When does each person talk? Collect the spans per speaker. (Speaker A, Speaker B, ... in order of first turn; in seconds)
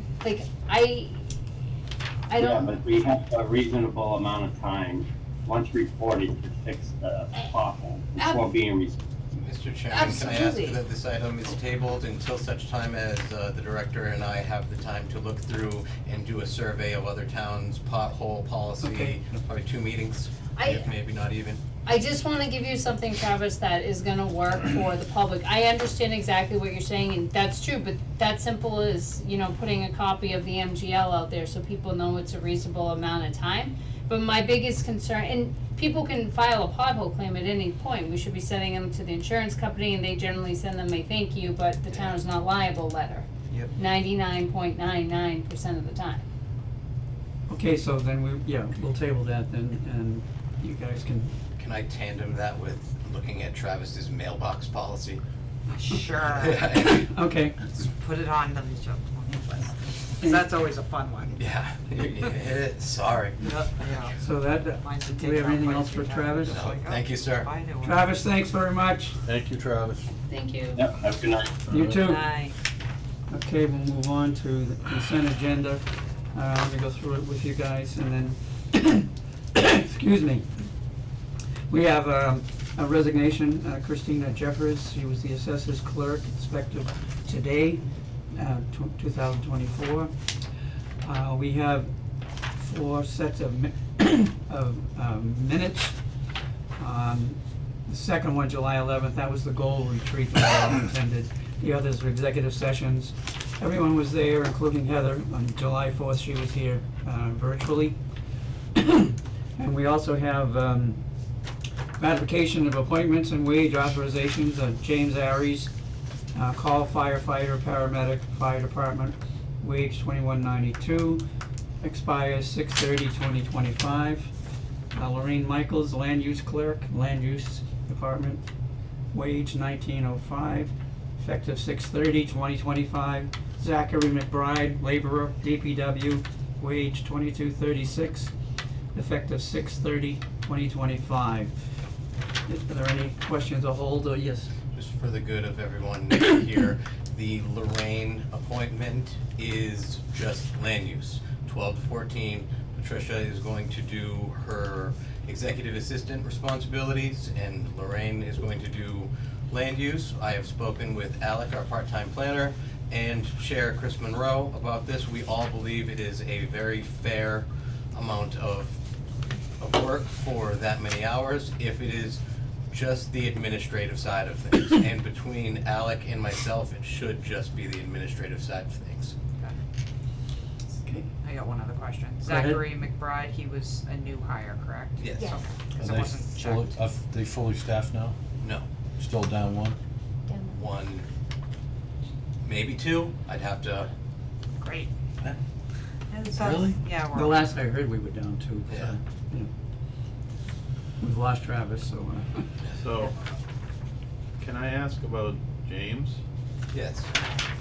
Speaker A: 0.2-1.3, 2.3-2.8, 8.2-8.4, 9.9-10.8, 20.6-20.9, 21.8-46.2, 70.3-70.8
Speaker B: 2.4-9.1, 70.8-71.7
Speaker C: 9.3-21.6, 41.9-42.2, 51.6-55.2, 56.2-57.1, 61.4-63.4, 66.5-67.5, 144.7-168.8, 169.6-179.1, 185.0-185.4, 188.4-188.7, 190.4-191.1, 192.4-193.9, 206.7-207.1
Speaker D: 18.8-19.4, 47.5-51.3, 56.8-57.8, 64.2-66.6, 67.8-69.2, 71.7-72.4, 73.3-80.5, 81.7-87.8, 88.3-90.1, 91.0-91.9, 92.5-96.0, 96.8-108.0, 108.8-111.0, 112.0-115.7, 116.3-121.2, 121.8-124.3, 124.9-128.4, 129.1-138.3, 138.9-141.5, 142.5-144.5, 182.2-182.6, 197.1-199.5, 201.0-202.5
Speaker E: 55.7-56.7, 57.8-62.3, 63.4-64.2, 64.8-68.1, 72.0-72.5, 179.4-179.6, 181.2-186.8, 194.6-194.9, 196.1-197.4
Speaker F: 69.2-70.0, 71.7-72.0, 185.8-188.2, 189.0-189.8, 196.3-196.8
Speaker G: 202.8-203.1, 204.4-206.2